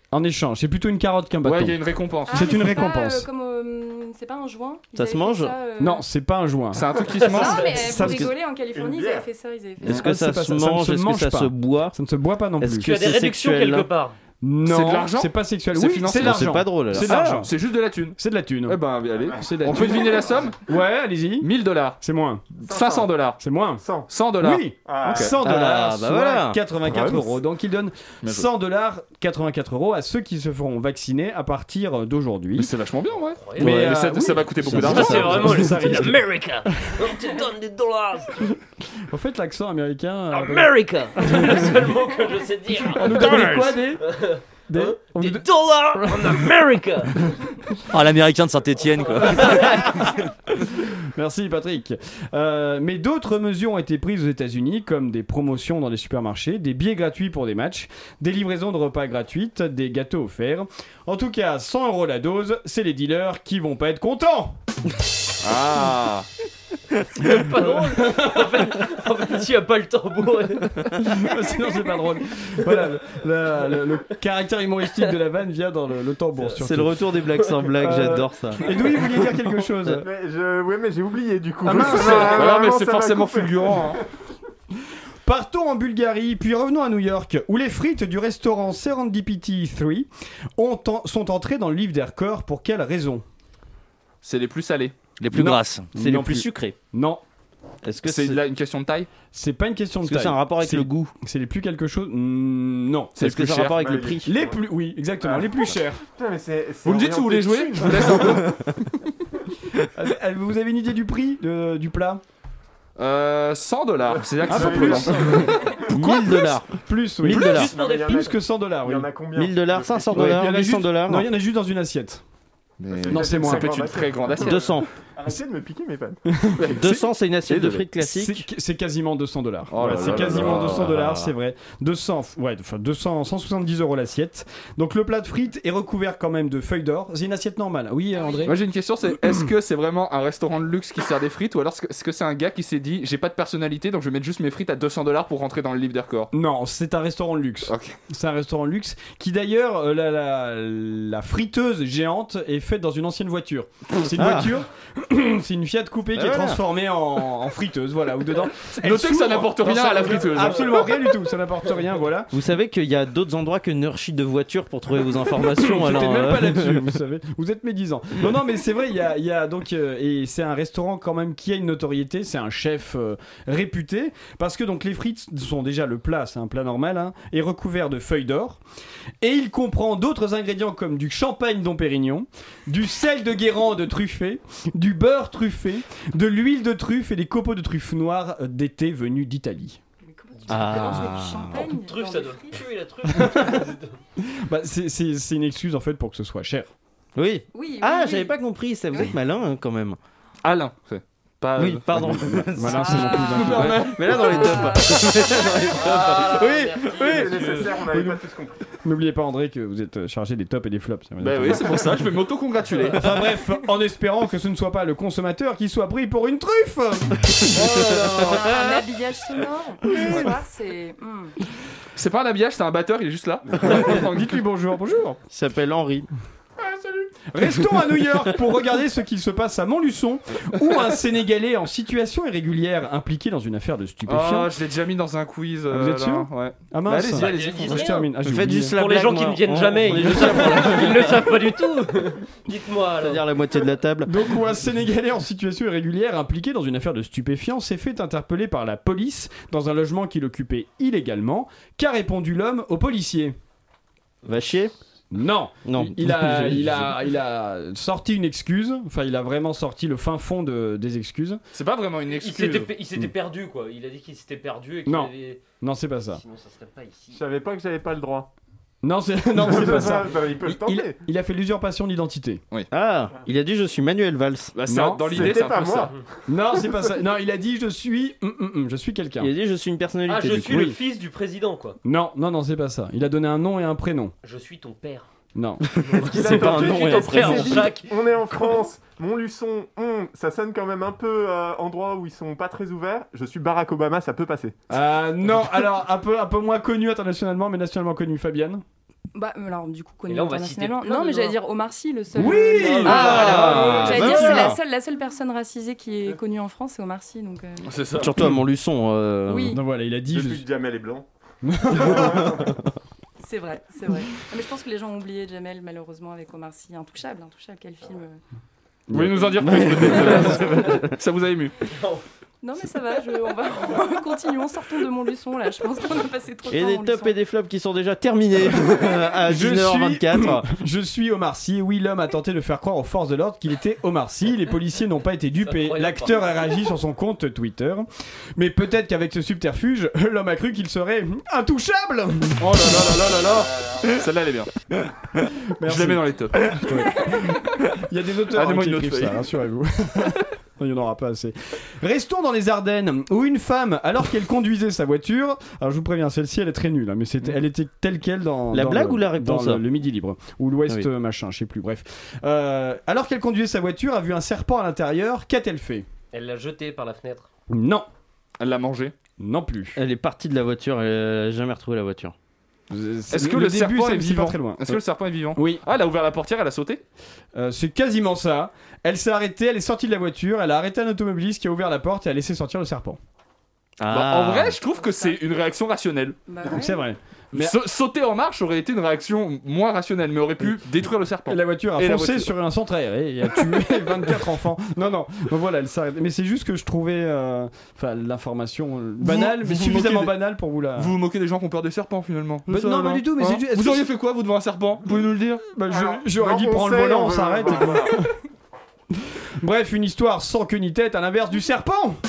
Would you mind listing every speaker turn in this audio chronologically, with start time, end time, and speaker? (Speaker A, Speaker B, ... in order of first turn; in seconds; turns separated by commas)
Speaker A: 0.1-1.8, Speaker B: 1.4-2.6, Speaker C: 2.3-6.0, Speaker A: 2.3-3.3, Speaker D: 4.9-5.6, Speaker A: 5.8-6.8, Speaker B: 6.7-7.7, Speaker E: 7.0-7.9, Speaker C: 7.2-10.0, Speaker A: 7.7-8.3, Speaker D: 8.0-8.3, Speaker F: 8.7-9.3, Speaker D: 9.8-11.9, Speaker A: 9.8-13.0, Speaker D: 12.6-13.9, Speaker E: 12.8-14.2, Speaker A: 14.4-17.5, Speaker B: 14.6-20.6, Speaker D: 16.1-17.5, Speaker A: 18.1-18.8, Speaker F: 19.3-19.9, Speaker A: 19.3-21.5, Speaker B: 21.4-22.0, Speaker A: 22.0-22.4, Speaker B: 22.6-23.4, Speaker F: 22.7-23.1, Speaker A: 23.4-23.8, Speaker F: 23.8-24.1, Speaker B: 24.1-25.3, Speaker A: 24.4-32.7, Speaker F: 24.8-25.4, Speaker D: 25.4-26.6, Speaker F: 26.8-27.4, Speaker B: 32.5-35.6, Speaker E: 33.4-33.8, Speaker A: 33.6-36.2, Speaker D: 33.6-34.0, Speaker D: 34.6-35.5, Speaker E: 34.7-38.5, Speaker A: 39.1-41.8, Speaker E: 40.3-47.2, Speaker A: 42.8-44.0, Speaker A: 44.7-46.5, Speaker G: 47.9-49.7, Speaker E: 49.0-50.0, Speaker A: 49.5-50.2, Speaker A: 50.7-64.5, Speaker B: 65.4-66.3, Speaker E: 67.2-70.7, Speaker A: 67.6-68.5, Speaker A: 71.0-77.0, Speaker D: 76.6-78.6, Speaker E: 77.3-77.6, Speaker A: 77.8-80.0, Speaker F: 80.0-84.0, Speaker A: 81.6-82.5, Speaker B: 81.7-84.0, Speaker A: 85.2-93.2, Speaker B: 94.2-94.9, Speaker G: 95.2-95.9, Speaker A: 95.3-97.2, Speaker D: 95.9-96.8, Speaker D: 97.8-98.4, Speaker B: 98.0-99.1, Speaker A: 99.3-103.2, Speaker D: 100.0-101.1, Speaker B: 103.2-103.8, Speaker D: 103.2-104.3, Speaker F: 103.8-104.6, Speaker A: 104.2-106.0, Speaker F: 105.2-108.6, Speaker B: 106.8-108.5, Speaker A: 109.9-112.2, Speaker B: 113.0-115.6, Speaker F: 114.1-116.1, Speaker A: 114.5-115.5, Speaker D: 115.9-117.7, Speaker A: 116.8-119.1, Speaker E: 117.5-118.3, Speaker F: 117.7-120.7, Speaker D: 119.3-121.3, Speaker A: 120.1-122.2, Speaker B: 120.2-120.5, Speaker B: 122.8-124.8, Speaker F: 122.9-126.2, Speaker A: 123.1-123.7, Speaker D: 124.4-124.9, Speaker A: 126.3-138.6, Speaker D: 126.7-128.4, Speaker B: 127.5-127.8, Speaker B: 129.7-130.9, Speaker D: 129.9-131.3, Speaker C: 138.1-138.6, Speaker B: 138.4-146.3, Speaker A: 146.3-162.3, Speaker B: 147.7-148.0, Speaker D: 154.1-154.6, Speaker D: 156.1-156.6, Speaker B: 158.7-160.9, Speaker D: 162.3-166.9, Speaker A: 165.5-178.6, Speaker A: 179.2-189.8, Speaker C: 190.0-192.7, Speaker D: 190.5-191.7, Speaker E: 190.5-191.0, Speaker E: 191.7-194.0, Speaker A: 193.1-193.6, Speaker A: 194.3-196.7, Speaker D: 197.2-200.0, Speaker C: 197.5-198.4, Speaker C: 198.9-199.2, Speaker B: 200.4-202.2, Speaker D: 201.6-207.6, Speaker A: 201.9-203.8, Speaker C: 202.7-203.4, Speaker B: 203.3-204.2, Speaker C: 204.1-205.7, Speaker E: 205.4-207.8, Speaker F: 206.9-208.6, Speaker A: 207.9-208.2, Speaker A: 208.8-211.9, Speaker B: 211.2-213.1, Speaker A: 212.9-218.6, Speaker C: 218.2-221.3, Speaker A: 219.9-220.3, Speaker B: 221.9-224.4, Speaker A: 223.6-225.2, Speaker D: 225.3-226.1, Speaker A: 227.3-234.5, Speaker B: 234.1-238.0, Speaker A: 235.7-238.8, Speaker E: 237.1-238.1, Speaker D: 238.2-241.3, Speaker E: 238.7-243.3, Speaker A: 240.1-240.4, Speaker D: 243.0-244.2, Speaker A: 244.1-253.3, Speaker D: 254.2-254.7, Speaker A: 255.1-261.4, Speaker D: 255.6-256.9, Speaker B: 261.5-262.8, Speaker E: 262.1-265.4, Speaker A: 264.9-266.2, Speaker E: 266.1-267.2, Speaker F: 267.1-268.3, Speaker A: 268.8-272.4, Speaker F: 269.3-270.9, Speaker D: 272.7-274.5, Speaker B: 274.5-275.9, Speaker A: 274.7-275.3, Speaker F: 275.1-276.0, Speaker A: 276.3-279.3, Speaker D: 279.2-280.7, Speaker E: 280.0-281.8, Speaker A: 280.4-280.8, Speaker A: 281.8-284.1, Speaker E: 284.2-285.1, Speaker A: 285.3-285.7, Speaker D: 285.8-287.7, Speaker F: 285.9-294.6, Speaker E: 286.1-288.0, Speaker A: 294.7-298.6, Speaker C: 299.1-307.8, Speaker E: 300.1-301.4, Speaker A: 302.1-304.4, Speaker E: 302.7-304.1, Speaker D: 302.8-304.6, Speaker B: 307.6-308.2, Speaker D: 308.0-309.6, Speaker C: 309.3-309.6, Speaker A: 309.5-310.4, Speaker F: 310.1-311.1, Speaker A: 311.4-312.3, Speaker F: 311.7-312.6, Speaker C: 313.2-318.2, Speaker A: 318.9-320.4, Speaker B: 318.9-321.6, Speaker D: 319.4-320.9, Speaker E: 321.7-322.0, Speaker C: 322.4-327.2, Speaker D: 326.5-330.5, Speaker A: 329.2-343.0, Speaker E: 335.4-336.3, Speaker B: 342.4-344.5, Speaker A: 345.6-365.9, Speaker B: 345.6-346.6, Speaker B: 348.3-349.2, Speaker D: 358.5-359.6, Speaker E: 366.1-367.3, Speaker A: 367.5-367.9, Speaker B: 368.4-368.9, Speaker A: 369.2-369.8, Speaker D: 369.8-372.1, Speaker A: 372.7-374.8, Speaker B: 373.1-376.8, Speaker A: 375.3-375.6, Speaker A: 377.3-383.0, Speaker D: 383.8-384.6, Speaker B: 383.9-386.2, Speaker C: 384.6-385.2, Speaker C: 386.3-386.8, Speaker A: 386.4-387.6, Speaker B: 387.3-392.3, Speaker A: 391.3-400.9, Speaker B: 399.0-400.1, Speaker B: 400.8-405.4, Speaker A: 402.5-403.9, Speaker A: 405.5-408.1, Speaker F: 405.7-407.9, Speaker A: 409.4-412.0